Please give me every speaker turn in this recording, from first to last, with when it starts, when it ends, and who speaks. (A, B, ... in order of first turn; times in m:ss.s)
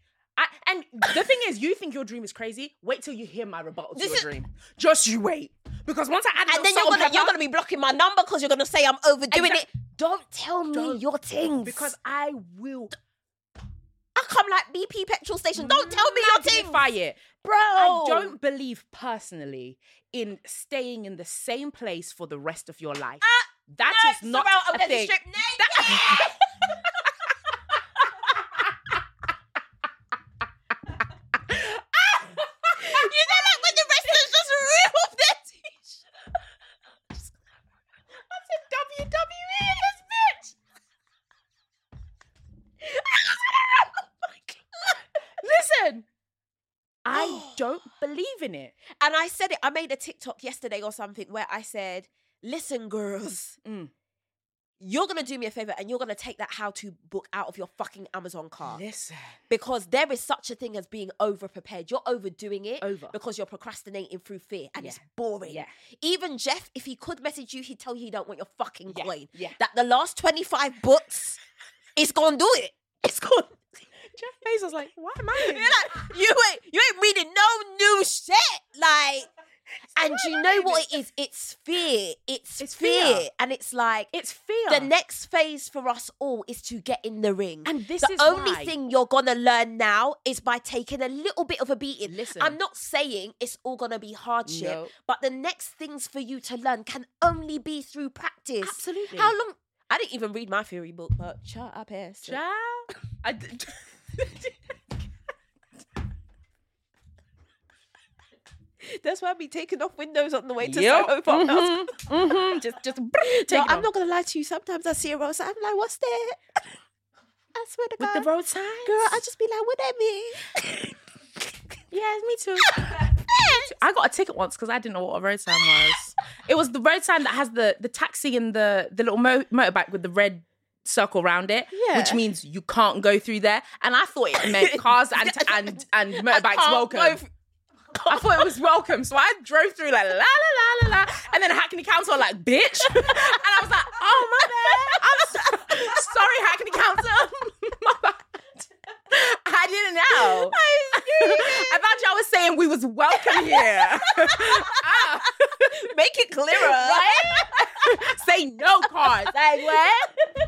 0:00.4-0:07.4 A
0:04.0-0:04.3 B
0:06.5-0:11.9 B
0:09.3-0:09.6 A
0:10.7-0:11.0 A
0:11.6-0:13.0 A
0:14.2-0:16.9 B
0:15.6-0:17.2 A
0:17.4-0:18.4 B
0:17.8-0:27.1 A
0:23.2-0:26.3 B
0:31.5-0:34.3 A
0:32.7-0:36.0 B
0:38.3-0:40.6 A
0:42.8-0:44.3 B
0:45.4-0:46.0 A
0:47.0-0:48.7 A
0:47.1-0:47.6 B
0:49.0-0:53.6 B
0:53.6-0:53.9 A
0:54.8-0:58.8 B
0:58.6-0:59.4 A
0:59.5-1:11.4 B
1:02.8-1:03.2 A
1:04.8-1:05.7 A
1:08.9-1:09.6 A
1:12.0-1:13.7 B
1:14.1-1:16.1 A
1:15.4-1:19.3 B
1:20.0-1:24.1 B
1:20.0-1:20.9 A
1:22.6-1:23.3 A
1:24.1-1:24.9 A
1:24.7-1:42.4 B
1:27.6-1:28.7 A
1:32.1-1:32.6 A
1:34.5-1:34.9 A
1:38.6-1:39.4 A
1:42.2-1:44.5 A
1:48.8-1:52.1 B
1:50.6-1:53.9 A
1:53.2-1:56.4 B
1:57.6-1:58.3 B
1:58.0-1:59.2 A
1:58.8-2:00.4 B
2:01.9-2:17.2 A
2:02.8-2:03.8 B
2:11.7-2:12.2 B
2:14.4-2:17.3 B
2:17.9-2:18.5 B
2:18.1-2:28.4 A
2:24.1-2:26.0 B
2:29.1-2:35.8 A
2:30.1-2:31.8 B
2:33.1-2:35.0 B
2:35.7-2:37.9 B
2:36.6-2:40.1 A
2:39.0-2:39.8 B